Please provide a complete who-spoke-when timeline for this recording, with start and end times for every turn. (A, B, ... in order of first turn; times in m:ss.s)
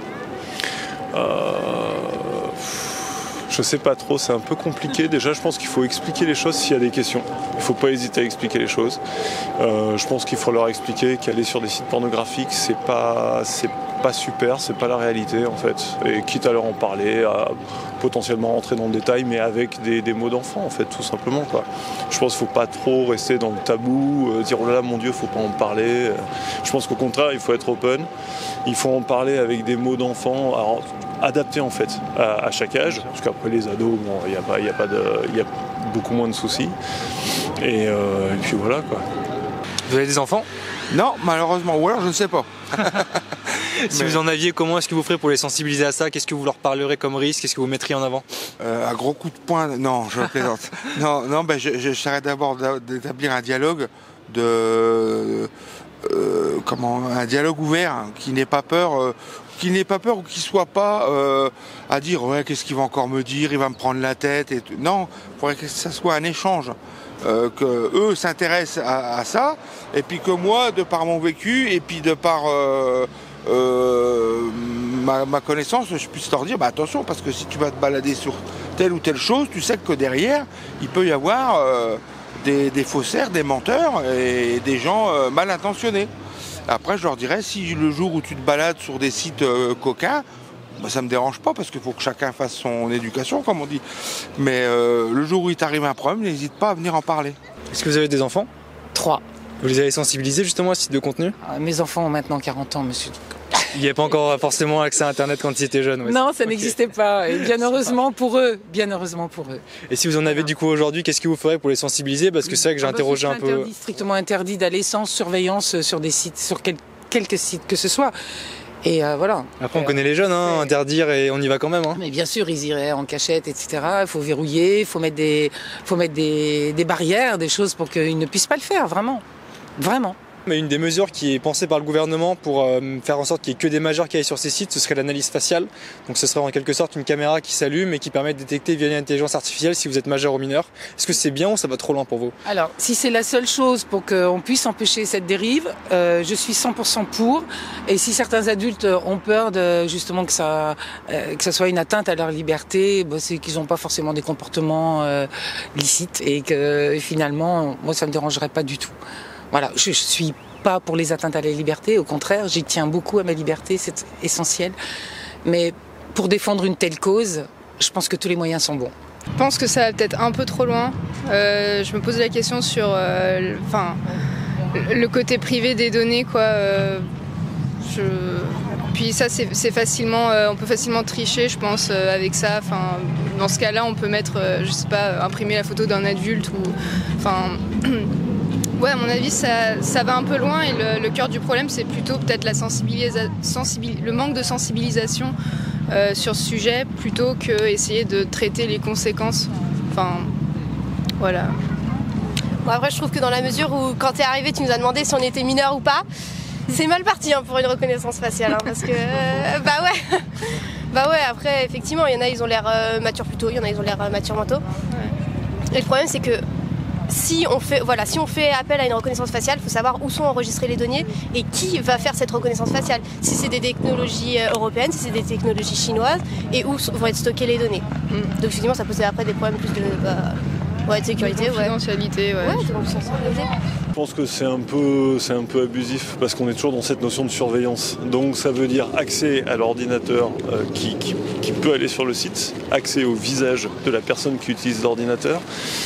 0:01.1-0:09.0 A
0:09.6-0:28.1 A
0:28.6-0:36.7 A
0:37.6-0:39.0 A
0:39.9-0:40.5 B
0:40.9-0:43.2 C
0:43.8-0:48.2 B
0:43.9-0:44.2 C
0:48.6-0:55.5 C
0:56.0-1:26.1 C
1:26.7-1:30.2 C
1:30.8-1:33.8 C
1:34.4-1:37.4 C
1:37.7-1:38.5 B
1:38.9-1:39.2 D
1:39.6-1:41.3 B
1:41.4-1:43.6 D
1:43.7-1:46.7 B
1:46.0-1:49.6 D
1:49.9-1:53.7 B
1:52.6-1:58.1 D
1:58.8-2:00.0 D
1:59.6-2:02.0 B
2:01.9-2:09.2 D
2:09.8-2:10.2 D
2:10.4-2:22.3 B
2:22.4-2:38.9 D
2:39.5-2:44.8 D
2:45.4-2:48.9 D
2:49.4-2:54.0 E
2:54.7-2:57.1 E
2:57.8-3:08.1 E
3:08.8-3:15.3 E
3:15.9-3:20.3 E
3:21.2-3:21.6 E
3:22.6-3:26.0 F
3:26.7-3:34.6 F
3:35.7-3:36.4 F
3:37.1-3:47.9 F
3:48.1-3:48.3 E
3:48.4-3:51.8 F
3:51.2-3:52.7 E
3:52.4-3:53.6 F
3:53.9-4:05.4 A